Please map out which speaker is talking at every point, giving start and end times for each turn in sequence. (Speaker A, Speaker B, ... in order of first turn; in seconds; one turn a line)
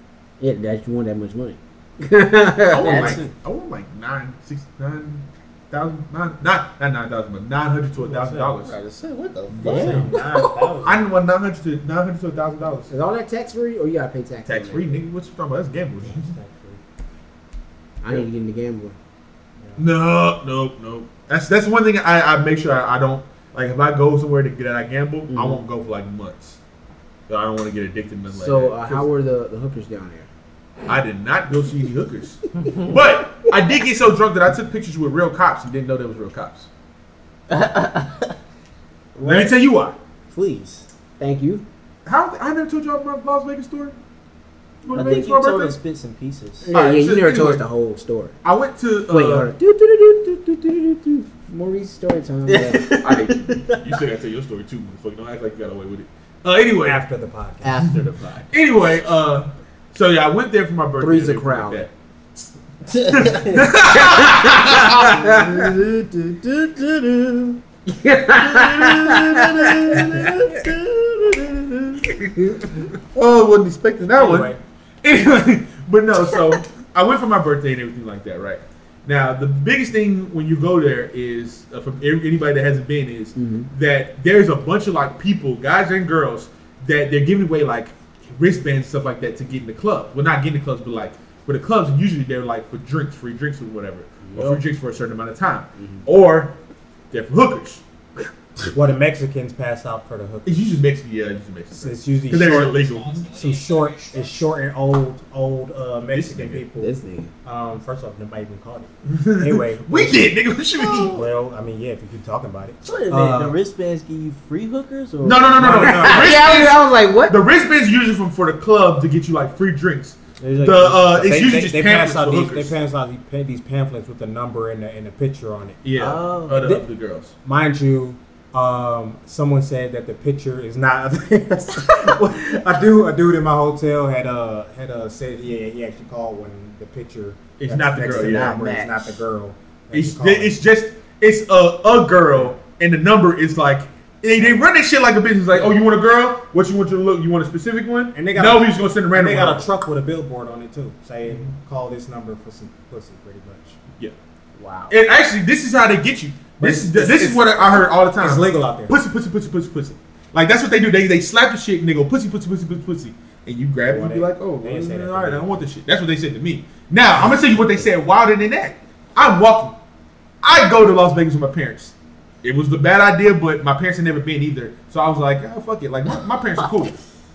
Speaker A: 0.4-3.2
Speaker B: 2.7-8.8
Speaker C: 2.7-3.3
Speaker D: 8.0-8.6
Speaker C: 8.6-10.2
Speaker B: 9.5-10.2
Speaker D: 9.6-11.1
Speaker A: 9.7-10.7
Speaker B: 10.8-12.9
Speaker A: 12.9-15.0
Speaker B: 14.5-16.4
Speaker D: 16.0-16.8
Speaker A: 18.0-19.0
Speaker B: 19.8-26.6
Speaker A: 25.3-25.6
Speaker B: 27.3-29.1
Speaker A: 28.3-30.3
Speaker B: 30.9-36.7
Speaker C: 32.6-32.9
Speaker C: 37.5-38.3
Speaker C: 39.2-39.5
Speaker B: 39.2-40.0
Speaker C: 40.3-40.9
Speaker A: 41.2-41.6
Speaker B: 42.0-44.0
Speaker B: 44.8-45.8
Speaker C: 44.9-46.7
Speaker A: 46.6-48.4
Speaker B: 46.7-47.6
Speaker B: 48.4-49.5
Speaker A: 49.1-53.0
Speaker C: 52.5-53.8
Speaker B: 53.0-57.0
Speaker D: 56.8-57.8
Speaker C: 57.6-58.5
Speaker B: 58.5-65.4
Speaker A: 61.0-61.9
Speaker C: 63.0-63.6
Speaker A: 63.8-65.7
Speaker C: 65.0-67.6
Speaker A: 67.9-70.5
Speaker B: 68.4-70.4
Speaker C: 69.9-72.0
Speaker A: 72.1-72.7
Speaker B: 73.0-96.5
Speaker D: 74.2-74.6
Speaker A: 83.4-83.7
Speaker A: 94.3-94.6
Speaker A: 95.8-96.0
Speaker B: 97.1-97.8
Speaker D: 98.7-100.7
Speaker B: 100.5-103.3
Speaker D: 101.7-106.9
Speaker B: 106.1-106.7
Speaker A: 106.8-107.3
Speaker D: 107.5-110.3
Speaker B: 109.1-111.2
Speaker C: 110.9-111.1
Speaker D: 111.1-113.6
Speaker C: 112.8-116.2
Speaker B: 115.2-122.7
Speaker D: 115.6-116.4
Speaker A: 115.8-117.4
Speaker C: 120.4-120.9
Speaker D: 120.5-125.8
Speaker B: 125.8-127.3
Speaker C: 126.0-126.7
Speaker D: 126.6-126.9
Speaker D: 127.5-140.6
Speaker B: 137.6-138.6
Speaker C: 138.1-139.0
Speaker B: 139.9-149.7
Speaker D: 148.1-153.8
Speaker A: 154.6-154.9
Speaker B: 154.9-169.8
Speaker D: 156.6-159.0
Speaker D: 163.9-165.7
Speaker B: 170.4-177.0